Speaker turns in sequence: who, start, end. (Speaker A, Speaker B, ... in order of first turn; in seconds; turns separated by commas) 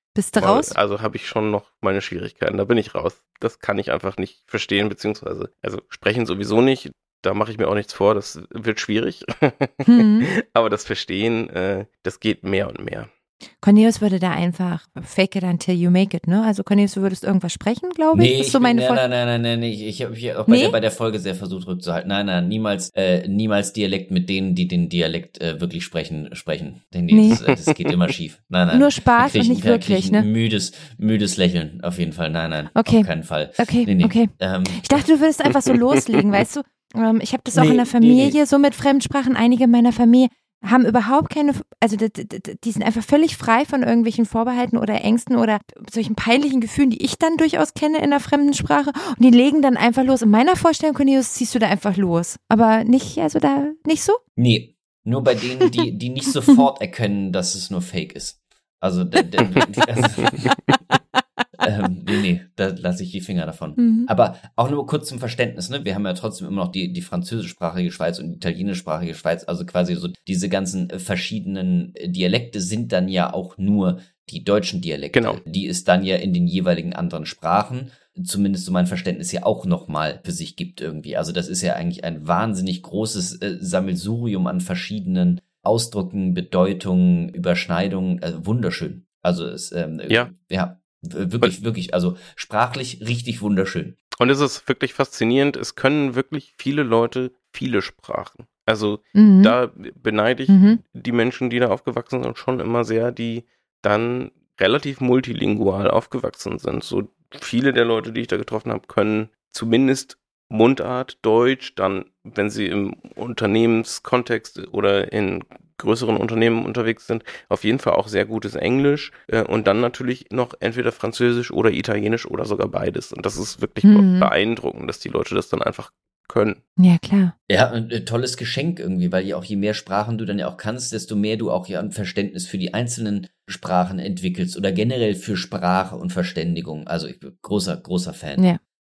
Speaker A: 0.1-0.8, Speaker B: 0.4-13.1, Speaker A: 9.9-10.3, Speaker A: 13.6-19.0, Speaker C: 18.1-35.0, Speaker A: 20.5-20.8, Speaker A: 27.1-27.4, Speaker B: 27.3-27.8, Speaker A: 28.7-30.3, Speaker A: 32.7-54.2, Speaker C: 37.5-38.4, Speaker C: 54.4-60.5, Speaker C: 61.6-94.0, Speaker A: 63.8-64.1, Speaker B: 75.1-75.4, Speaker B: 94.2-126.6, Speaker A: 99.1-99.5, Speaker A: 100.5-100.8, Speaker A: 123.8-124.3, Speaker A: 126.8-127.3, Speaker C: 127.5-138.5